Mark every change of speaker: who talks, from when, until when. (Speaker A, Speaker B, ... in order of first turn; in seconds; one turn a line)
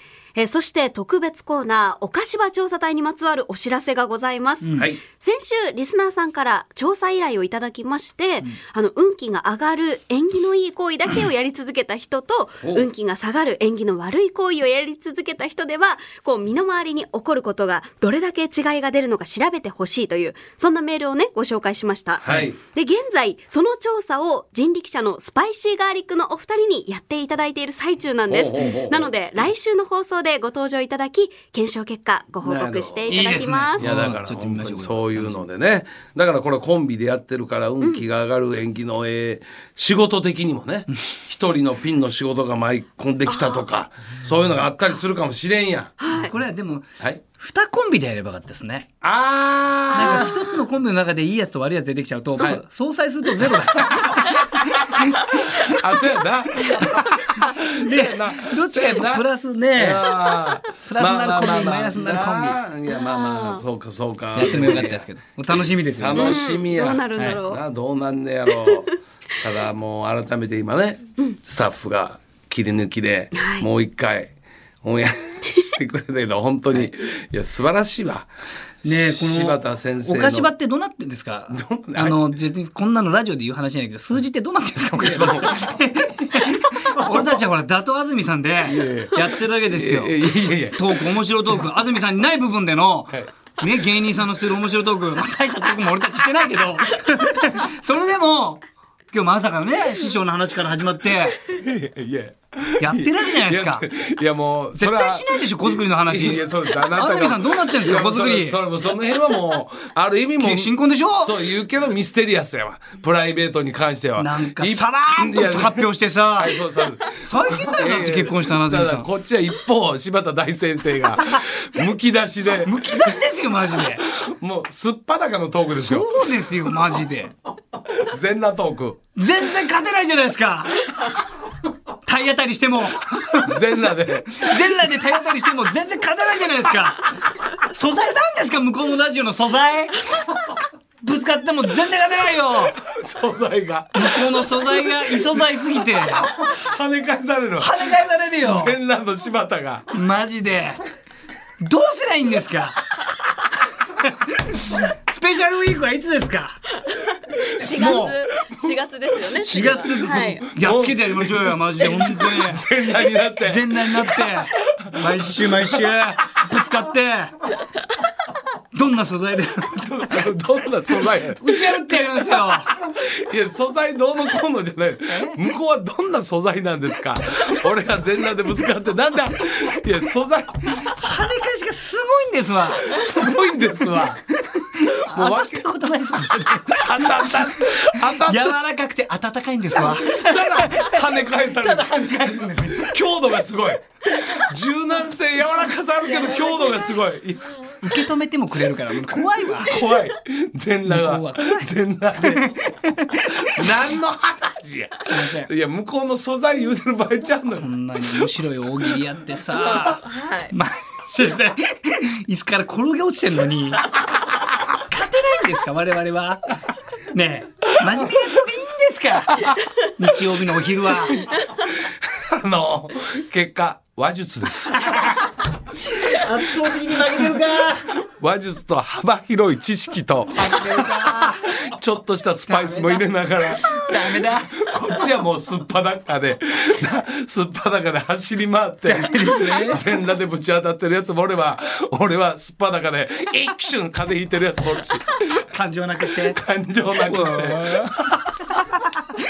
Speaker A: 0.3-33.9
Speaker B: 4.6-4.9
Speaker C: 4.7-5.0
Speaker C: 22.2-22.6
Speaker C: 28.3-29.1
Speaker C: 32.4-33.1
Speaker B: 33.1-35.4
Speaker C: 33.8-45.9
Speaker A: 43.2-43.6
Speaker A: 46.0-46.3
Speaker B: 46.1-48.9
Speaker C: 49.0-50.4
Speaker B: 49.9-55.7
Speaker A: 50.0-50.4
Speaker C: 55.6-65.1
Speaker B: 56.6-60.1
Speaker B: 60.8-62.6
Speaker A: 62.9-63.6
Speaker B: 64.3-66.4
Speaker C: 66.0-68.9
Speaker A: 66.1-67.6
Speaker A: 68.5-68.8
Speaker C: 69.4-78.3
Speaker A: 73.3-73.7
Speaker C: 78.8-80.5
Speaker B: 78.8-90.1
Speaker C: 81.5-82.4
Speaker C: 85.0-85.7
Speaker C: 88.6-91.1
Speaker B: 90.7-101.4
Speaker C: 101.4-123.2
Speaker B: 102.8-103.9
Speaker B: 104.7-108.6
Speaker B: 110.4-111.3
Speaker B: 114.2-119.1
Speaker B: 122.6-124.0
Speaker C: 124.0-126.1
Speaker B: 125.8-127.3
Speaker C: 128.0-129.0
Speaker B: 129.2-130.8
Speaker B: 132.0-133.6
Speaker C: 133.4-134.7
Speaker B: 134.3-140.0
Speaker B: 141.0-142.8
Speaker C: 142.8-149.9
Speaker B: 143.9-146.2
Speaker B: 147.6-148.8
Speaker B: 149.9-150.8
Speaker B: 151.6-152.8
Speaker B: 154.0-156.6
Speaker B: 157.4-158.1
Speaker A: 157.5-160.5
Speaker C: 157.7-158.1
Speaker B: 159.4-167.3
Speaker C: 159.5-164.5
Speaker C: 165.1-165.9
Speaker B: 168.7-170.1
Speaker C: 169.7-180.7
Speaker B: 171.0-172.7
Speaker B: 175.1-175.4
Speaker B: 180.7-183.0
Speaker C: 182.8-184.2
Speaker B: 184.3-192.9
Speaker C: 185.0-185.6
Speaker C: 186.7-188.6
Speaker C: 189.7-197.8
Speaker B: 197.8-199.8
Speaker C: 199.6-202.7
Speaker B: 200.8-201.7
Speaker B: 202.2-203.3
Speaker C: 203.3-207.7
Speaker B: 205.0-205.5
Speaker B: 207.6-213.9
Speaker A: 210.0-210.5
Speaker B: 214.7-216.5
Speaker B: 217.1-221.3
Speaker C: 221.6-225.2
Speaker B: 225.9-227.9
Speaker C: 228.0-245.2
Speaker B: 230.3-231.5
Speaker B: 232.5-233.0
Speaker B: 233.6-234.6
Speaker B: 238.8-239.8
Speaker B: 245.3-246.4
Speaker C: 246.2-247.9
Speaker B: 247.0-248.6